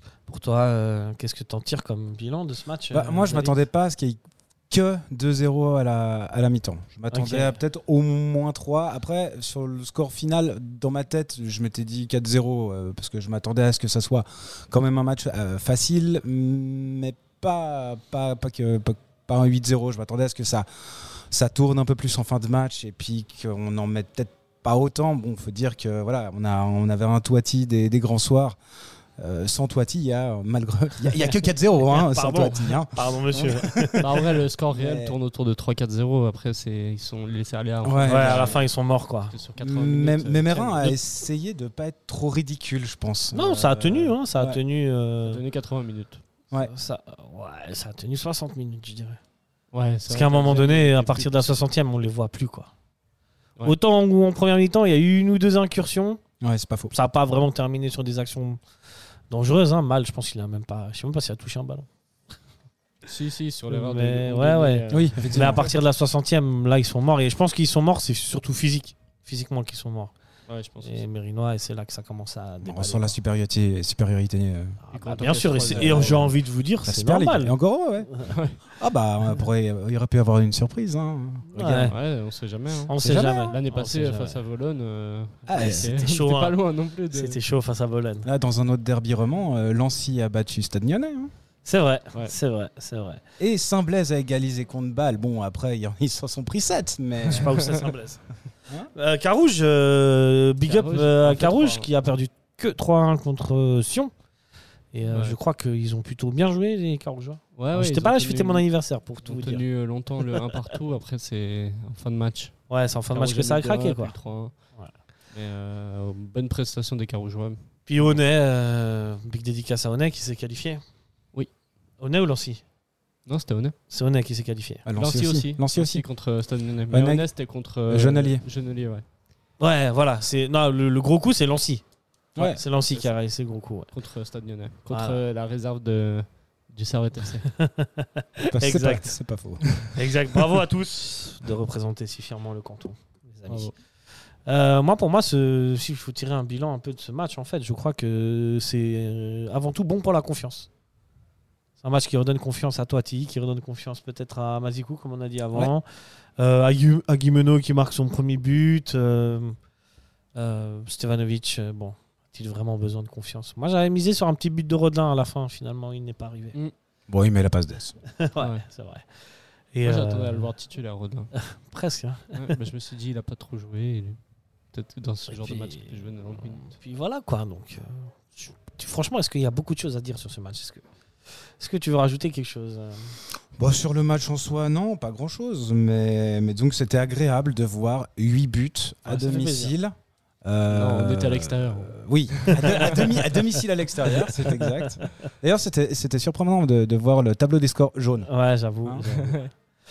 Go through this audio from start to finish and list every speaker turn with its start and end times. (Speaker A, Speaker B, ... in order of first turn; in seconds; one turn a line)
Speaker A: 0.3-3.6
Speaker B: 2.9-4.2
Speaker B: 4.7-28.6
Speaker A: 7.1-7.6
Speaker B: 29.2-33.9
Speaker A: 31.9-34.1
Speaker C: 34.0-38.7
Speaker B: 34.7-35.2
Speaker B: 37.8-38.6
Speaker A: 38.0-39.3
Speaker C: 39.3-41.0
Speaker B: 39.6-44.6
Speaker A: 43.3-45.4
Speaker C: 43.8-44.2
Speaker C: 45.2-46.2
Speaker A: 46.5-49.2
Speaker C: 49.7-51.5
Speaker A: 50.1-52.7
Speaker A: 53.6-56.2
Speaker B: 56.4-56.9
Speaker A: 56.9-58.6
Speaker A: 59.3-61.9
Speaker C: 63.0-65.7
Speaker A: 63.7-70.1
Speaker B: 64.9-65.7
Speaker C: 70.5-71.0
Speaker A: 70.8-73.2
Speaker B: 72.6-74.8
Speaker A: 74.9-77.5
Speaker C: 74.9-76.3
Speaker B: 75.6-78.1
Speaker C: 78.3-78.6
Speaker B: 78.8-82.0
Speaker A: 81.5-82.0
Speaker C: 81.7-87.4
Speaker A: 82.9-84.4
Speaker B: 83.0-83.5
Speaker B: 85.5-86.0
Speaker A: 85.5-86.6
Speaker A: 87.1-88.3
Speaker B: 88.2-91.3
Speaker A: 91.7-93.2
Speaker B: 93.4-97.5
Speaker A: 97.2-98.2
Speaker A: 98.9-104.1
Speaker C: 100.7-101.9
Speaker A: 104.9-109.6
Speaker C: 105.1-105.4
Speaker C: 107.6-108.7
Speaker C: 109.2-112.6
Speaker A: 112.7-114.2
Speaker C: 113.1-114.5
Speaker C: 115.3-118.2
Speaker A: 117.9-120.8
Speaker A: 122.0-122.6
Speaker C: 123.2-123.8
Speaker A: 123.9-124.8
Speaker B: 124.9-126.0
Speaker C: 125.0-129.0
Speaker B: 126.9-127.3
Speaker B: 127.9-128.4
Speaker A: 129.6-131.8
Speaker B: 132.4-132.6
Speaker A: 132.4-133.9
Speaker C: 133.9-137.5
Speaker A: 134.9-135.2
Speaker A: 137.5-139.1
Speaker B: 138.5-139.8
Speaker A: 139.9-143.7
Speaker C: 143.5-143.7
Speaker A: 144.4-150.7
Speaker A: 151.8-155.9
Speaker A: 156.4-159.6
Speaker A: 160.3-166.6
Speaker B: 167.1-168.0
Speaker A: 168.1-169.1
Speaker C: 168.4-168.6
Speaker A: 169.7-170.5
Speaker C: 169.8-171.3
Speaker A: 171.3-172.6
Speaker C: 172.3-174.2
Speaker C: 174.7-176.8
Speaker A: 175.3-180.8
Speaker A: 181.5-183.2
Speaker B: 183.6-198.3
Speaker A: 189.1-189.8
Speaker C: 190.7-193.0
Speaker A: 192.6-193.1
Speaker A: 194.0-195.2
Speaker A: 198.2-199.5
Speaker C: 199.0-199.5